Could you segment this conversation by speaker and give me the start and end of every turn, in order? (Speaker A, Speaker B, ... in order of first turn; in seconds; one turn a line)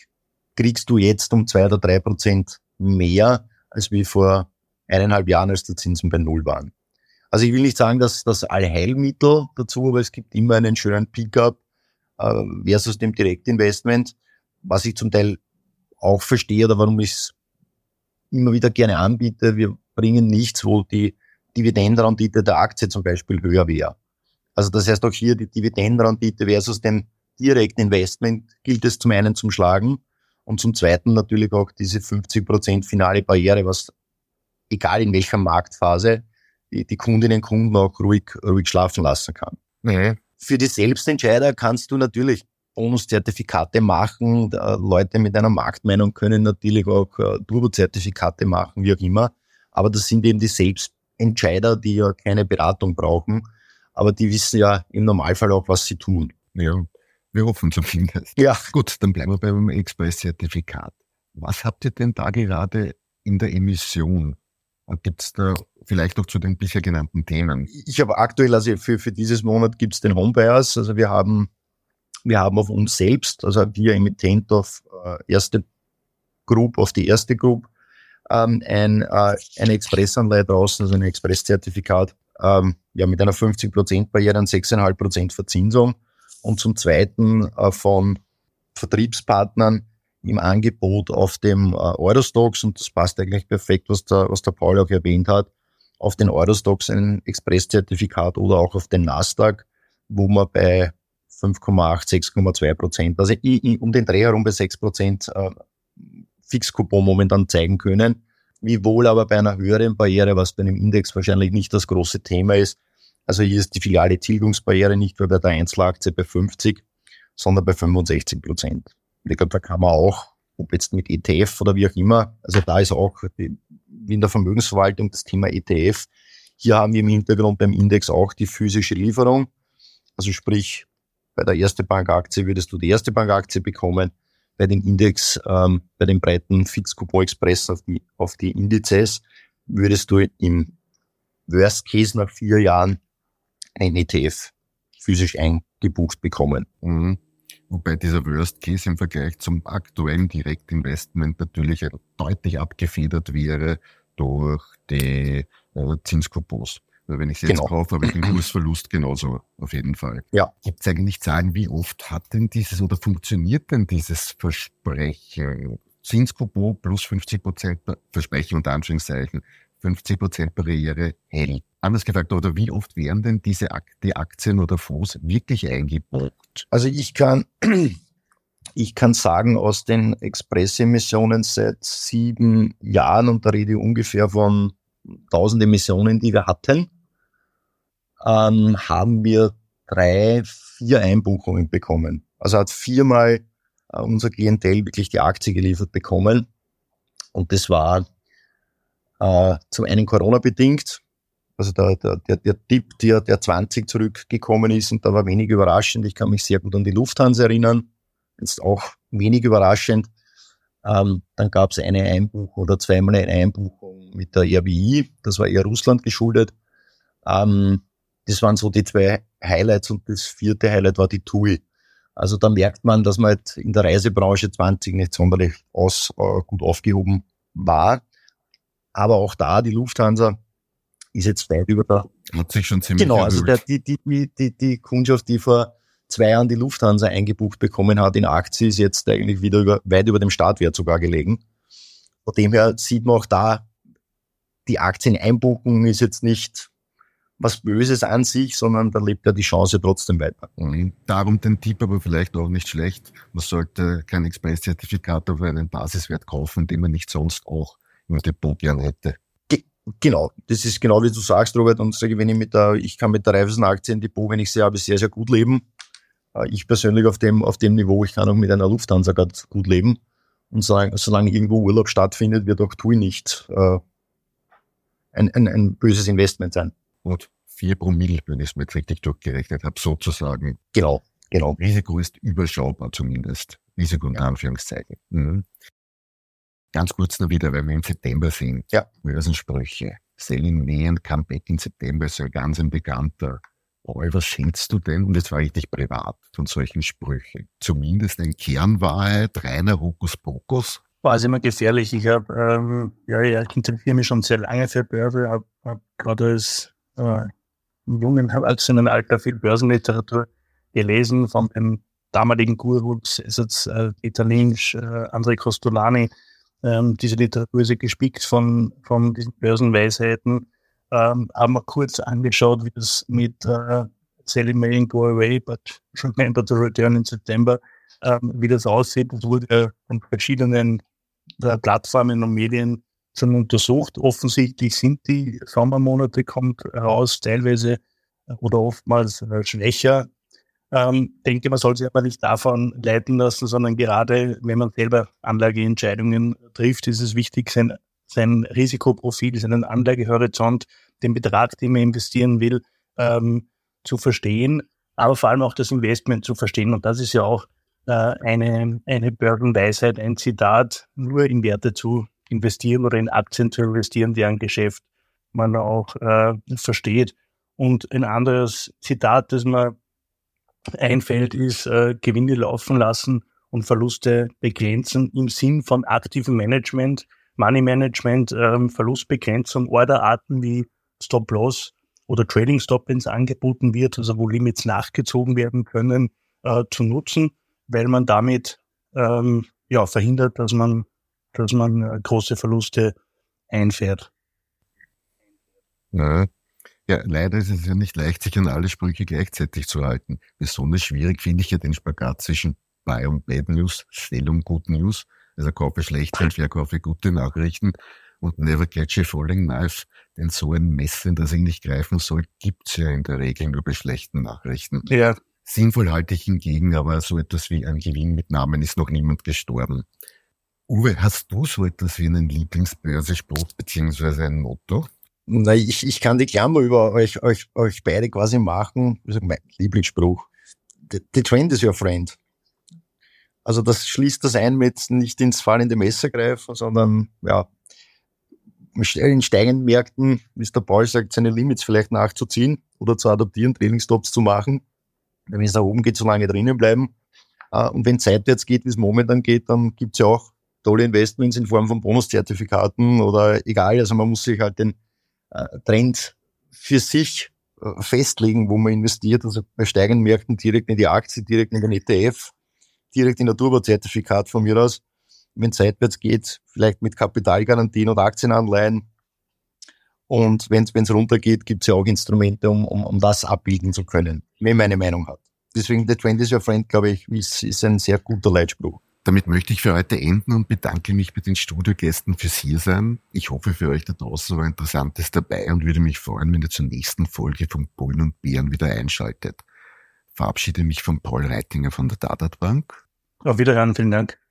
Speaker A: 0.6-6.7
Speaker A: 7.3-11.6
Speaker A: 12.2-15.4
Speaker A: 16.0-17.3
Speaker A: 18.3-23.9
Speaker A: 24.6-33.9
Speaker A: 34.7-39.6
Speaker B: 39.8-40.2
Speaker A: 40.4-53.4
Speaker A: 54.0-56.3
Speaker B: 56.5-67.7
Speaker A: 58.4-58.7
Speaker A: 67.7-71.5
Speaker A: 72.2-75.6
Speaker A: 76.5-77.7
Speaker A: 78.3-88.2
Speaker A: 88.7-105.5
Speaker A: 106.5-116.8
Speaker A: 117.3-126.1
Speaker A: 126.6-129.5
Speaker A: 130.2-140.7
Speaker A: 141.5-143.0
Speaker A: 143.8-146.7
Speaker B: 146.8-176.6
Speaker A: 176.7-178.0
Speaker A: 178.8-184.8
Speaker A: 185.3-186.9
Speaker A: 188.2-196.4
Speaker A: 197.3-198.1
Speaker A: 199.2-201.0
Speaker A: 201.6-207.9
Speaker A: 208.4-210.1
Speaker A: 210.8-216.5
Speaker A: 217.2-221.6
Speaker A: 222.2-228.0
Speaker A: 228.9-230.4
Speaker A: 231.1-232.1
Speaker B: 232.3-233.6
Speaker A: 233.0-241.4
Speaker A: 242.2-243.7
Speaker A: 244.7-246.7
Speaker A: 247.4-250.5
Speaker B: 250.6-259.2
Speaker A: 259.5-265.6
Speaker A: 266.3-270.0
Speaker A: 270.5-273.8
Speaker A: 275.1-276.7
Speaker B: 277.0-280.6
Speaker A: 280.7-281.6
Speaker B: 281.6-285.4
Speaker B: 286.7-300.8
Speaker C: 301.0-307.3
Speaker C: 307.9-316.1
Speaker C: 316.6-330.8
Speaker C: 331.4-337.8
Speaker C: 338.3-340.1
Speaker C: 340.7-369.7
Speaker C: 370.8-392.9
Speaker C: 393.5-394.1
Speaker B: 395.9-396.3
Speaker B: 396.9-414.9
Speaker C: 414.9-415.2
Speaker B: 415.4-419.9
Speaker B: 420.7-424.9
Speaker A: 425.3-430.3
Speaker A: 430.9-432.2
Speaker A: 433.4-437.5
Speaker A: 438.8-444.6
Speaker A: 445.3-446.9
Speaker A: 447.5-454.8
Speaker A: 455.3-462.3
Speaker A: 462.9-464.8
Speaker A: 465.4-468.9
Speaker A: 470.1-478.8
Speaker B: 479.0-489.4
Speaker B: 490.1-492.8
Speaker C: 493.2-494.2